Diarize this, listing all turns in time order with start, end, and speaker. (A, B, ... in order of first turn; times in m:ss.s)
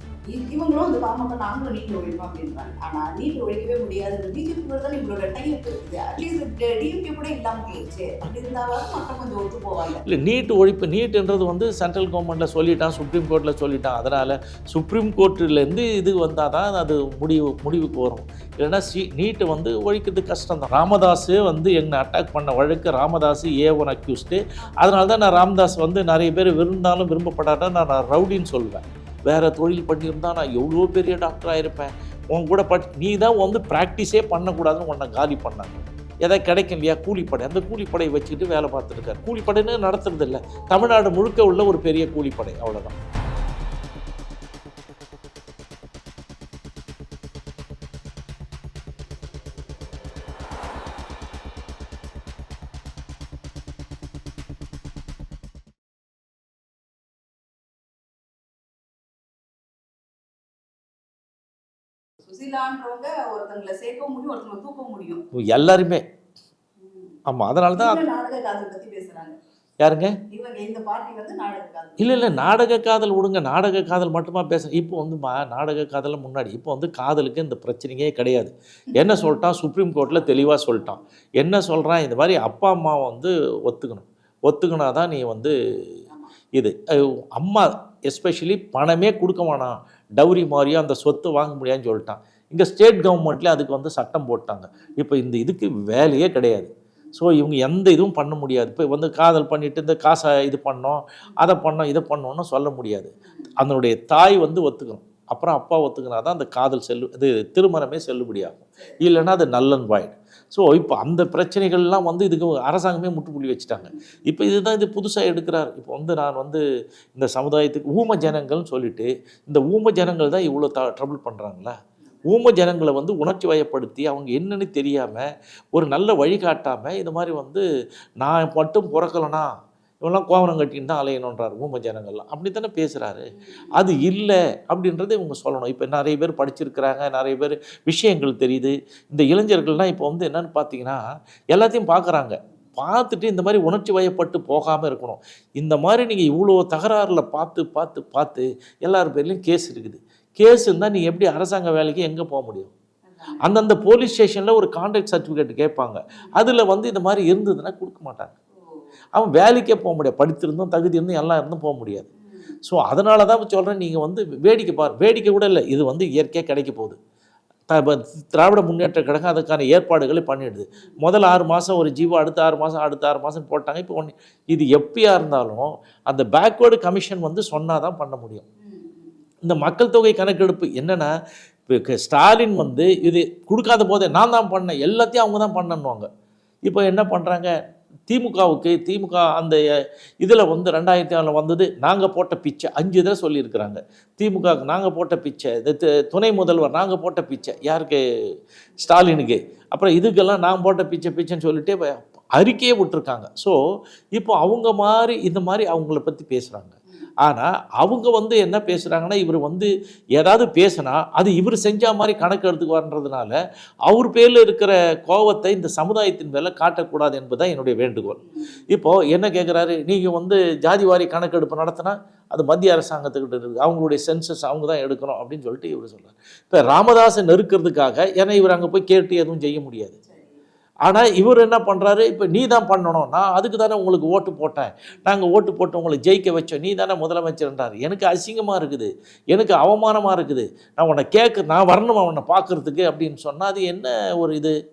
0:00.3-0:10.0 A
0:10.0-0:42.9 B
1:02.2-1:05.2 A
1:05.3-1:06.0 B
1:06.8-1:07.2 A
1:07.3-1:08.0 B
1:07.8-1:09.4 A
1:09.8-1:10.2 B
1:10.3-1:12.3 A
1:12.0-1:25.6 B
1:20.1-1:21.0 A
1:26.1-1:26.3 A
1:27.4-1:56.6 B
1:43.2-1:43.5 A
1:48.8-1:49.1 A
1:57.2-2:07.6 B
2:08.2-2:09.5 B
2:10.0-2:21.0 B
2:21.5-2:32.7 B
2:33.1-2:33.4 A
2:33.4-2:38.3 B
2:39.2-2:42.1 B
2:42.3-2:42.6 A
2:42.6-2:47.0 B
2:47.7-2:58.4 B
2:58.6-2:59.4 A
2:59.4-3:01.1 B
3:01.7-3:06.1 B
3:06.6-3:07.5 B
3:08.1-3:09.6 B
3:10.2-3:18.0 B
3:18.8-3:23.6 B
3:24.2-3:38.2 B
3:38.3-3:38.6 A
3:38.7-3:50.0 B
3:50.1-3:50.4 A
3:50.9-4:04.6 B